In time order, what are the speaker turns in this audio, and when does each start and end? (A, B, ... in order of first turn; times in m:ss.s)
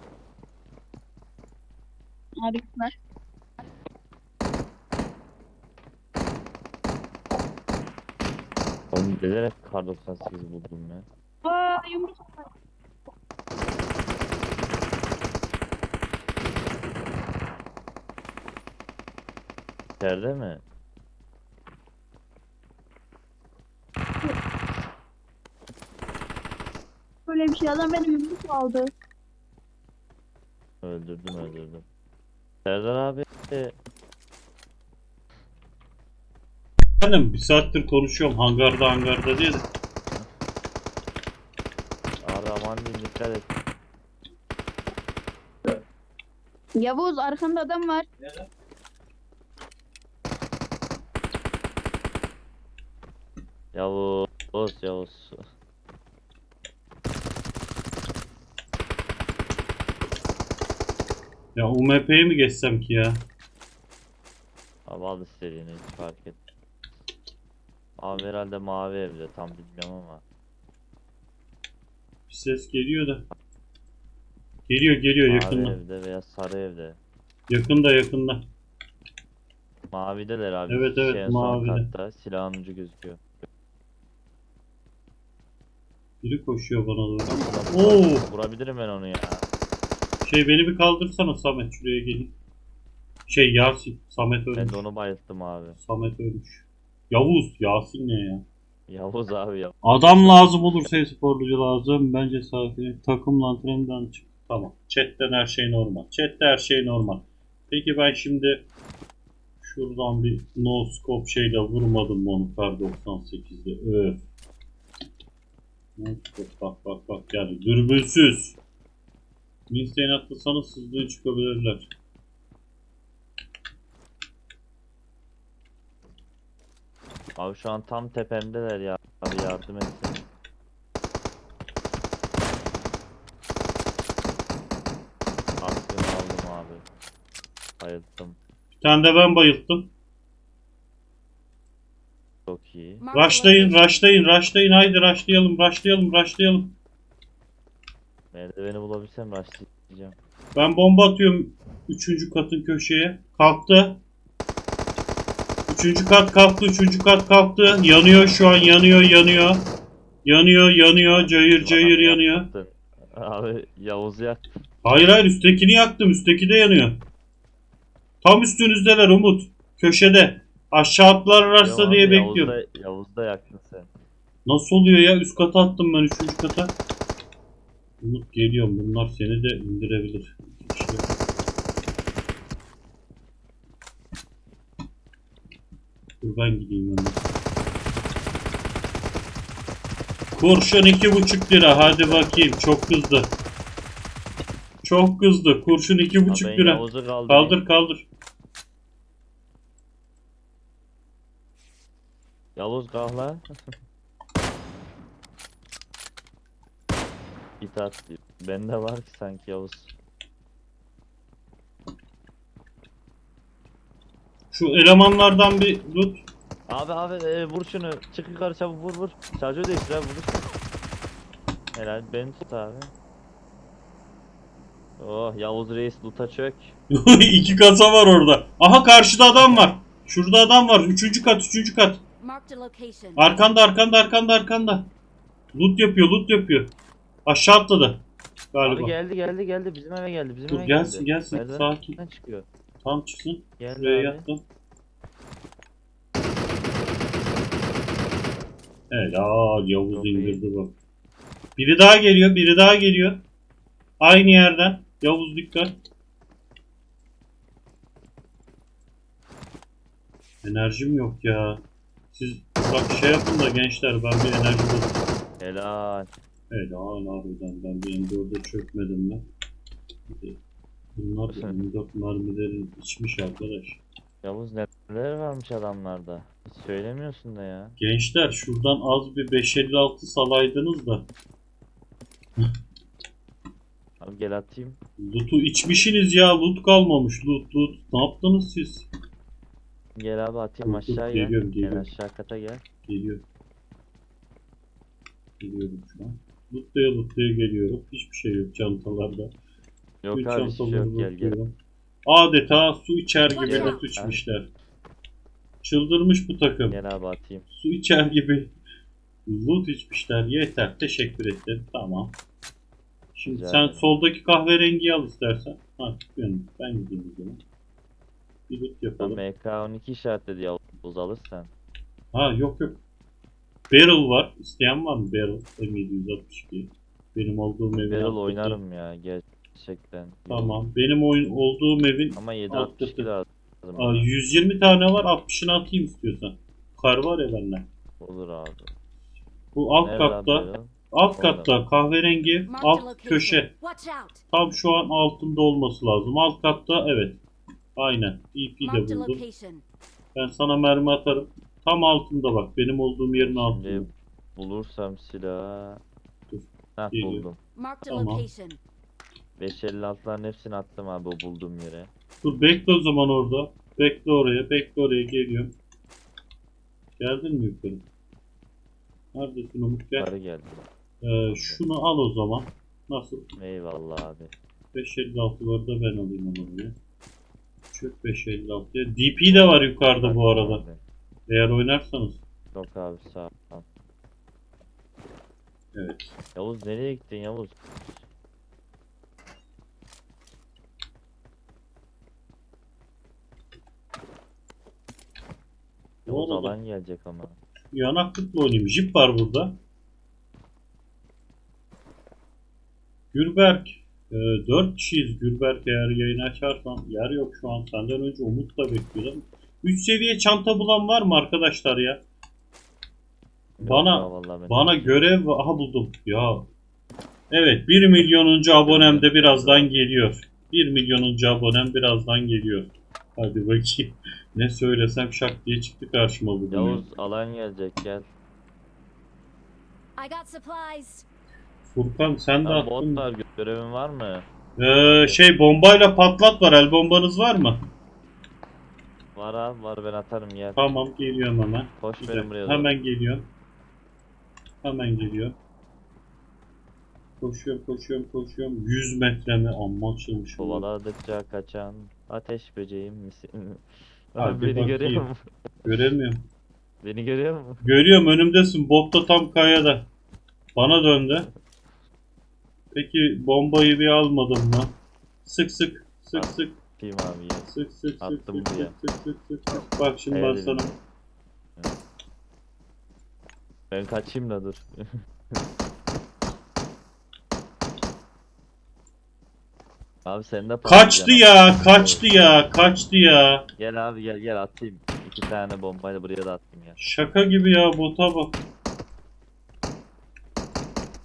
0:02.4-0:02.9 A
0:08.9-0:11.0 B
0:11.4-0:12.5 A
0:20.0-0:20.6 B
0:27.3-0:28.9 A
0:30.8-0:31.8 B
0:32.6-0:33.8 B
0:37.0-0:39.7 C
0:42.2-0:43.5 B
0:46.8-0:48.0 A
0:53.7-0:55.4 B
1:01.5-1:03.2 C
1:04.8-1:06.4 B
1:08.0-1:10.2 B
1:12.3-1:13.2 C
1:14.7-1:15.8 C
1:15.3-1:17.0 B
1:17.5-1:18.4 C
1:19.9-1:23.3 B
1:20.7-1:21.9 C
1:26.2-1:28.3 C
1:27.3-1:29.4 B
1:30.2-1:32.3 C
1:33.3-1:34.8 C
1:34.6-1:35.8 B
1:35.8-1:38.4 C
1:38.9-1:40.8 B
1:39.8-1:48.6 C
1:49.6-1:54.2 C
1:56.0-1:58.6 C
1:59.7-2:01.9 C
2:07.4-2:10.2 B
2:15.6-2:16.8 B
2:17.8-2:18.4 B
2:18.8-2:19.9 C
2:22.4-2:23.0 B
2:23.0-2:24.2 D
2:23.1-2:26.7 C
2:28.3-2:30.2 B
2:30.5-2:34.0 C
2:35.7-2:39.7 C
2:40.2-2:42.5 C
2:41.1-2:44.4 B
2:44.8-2:47.0 C
2:48.2-2:52.5 C
2:51.6-2:53.9 B
2:54.4-2:56.7 C
2:58.0-3:01.0 C
3:06.2-3:07.2 C
3:10.3-3:13.3 C
3:11.6-3:12.6 B
3:14.8-3:18.1 C
3:16.3-3:17.6 B
3:22.6-3:23.4 B
3:27.6-3:29.9 B
3:34.5-3:36.2 C
3:36.7-3:40.5 B
3:41.7-3:42.9 B
3:45.0-3:46.8 B
3:46.9-3:52.0 C
3:52.2-3:53.2 D
3:53.2-3:54.9 C
3:55.5-3:56.7 C
3:57.2-3:58.9 C
3:58.6-4:02.5 B
4:00.5-4:02.0 C
4:02.8-4:04.4 C
4:03.6-4:04.2 B
4:08.9-4:10.7 C
4:09.9-4:10.4 B
4:11.6-4:13.2 C
4:14.0-4:15.8 C
4:20.4-4:25.0 C
4:25.4-4:26.1 B
4:26.5-4:29.2 C
4:30.1-4:30.4 C
4:31.0-4:33.8 C
4:34.2-4:37.8 B
4:37.8-4:41.1 C
4:44.0-4:44.8 B
4:45.0-4:48.9 C
4:50.0-4:52.6 B
4:50.6-4:51.9 C
4:52.8-4:53.2 C
4:55.4-4:59.3 C
5:00.0-5:01.4 B
5:00.1-5:04.5 C
5:03.2-5:03.8 D
5:03.4-5:04.2 B
5:05.6-5:06.8 C
5:06.7-5:07.5 B
5:07.5-5:08.5 C
5:09.2-5:12.2 C
5:13.1-5:17.4 C
5:13.2-5:14.0 B
5:18.5-5:19.2 C
5:19.0-5:21.5 B
5:22.1-5:22.8 C
5:23.7-5:28.6 C
5:27.7-5:30.6 B
5:30.3-5:33.1 C
5:32.1-5:34.1 B
5:33.8-5:37.7 C
5:38.0-5:38.7 B
5:39.5-5:43.5 C
5:39.8-5:41.5 B
5:42.5-5:44.2 D
5:44.3-5:47.2 C
5:47.8-5:49.2 C
5:48.6-5:49.6 D
5:50.1-5:53.9 C
5:53.1-5:55.8 B
5:56.3-5:57.2 C
5:56.8-5:57.4 B
5:57.5-5:58.6 D
5:57.9-5:58.2 C
5:59.4-6:01.9 B
6:02.2-6:05.5 C
6:07.0-6:07.8 C
6:09.1-6:10.1 C
6:10.0-6:10.7 B
6:11.0-6:13.3 C
6:11.3-6:11.6 B
6:13.4-6:14.3 B
6:14.7-6:16.7 C
6:17.7-6:20.6 C
6:19.2-6:20.8 B
6:21.3-6:22.2 C
6:22.5-6:23.6 B
6:25.7-6:26.1 C
6:26.3-6:28.0 B
6:36.0-6:36.6 C
6:36.0-6:37.4 B
6:37.7-6:39.6 C
6:43.1-6:52.0 C
6:53.6-6:55.1 B
6:53.6-6:56.5 C
6:57.3-7:06.8 C
6:58.6-6:59.7 B
7:06.5-7:08.1 B
7:10.0-7:11.0 D
7:11.7-7:13.0 C
7:12.4-7:14.2 B
7:14.6-7:17.6 C
7:14.8-7:15.2 B
7:19.1-7:20.8 B
7:20.6-7:23.3 C
7:21.8-7:22.8 B
7:24.6-7:25.4 C
7:27.2-7:30.6 C
7:30.4-7:35.3 B
7:34.2-7:35.1 C
7:35.6-7:36.2 C
7:36.8-7:37.6 B
7:37.6-7:39.9 C
7:40.5-7:41.3 C
7:42.7-7:46.6 C
7:46.1-7:47.5 B
7:47.5-7:50.7 C
7:48.0-7:48.7 B
7:50.1-7:50.8 B
7:53.7-7:55.4 B
8:00.0-8:02.1 B
8:00.6-8:03.5 C
8:03.6-8:06.8 B
8:06.8-8:08.4 C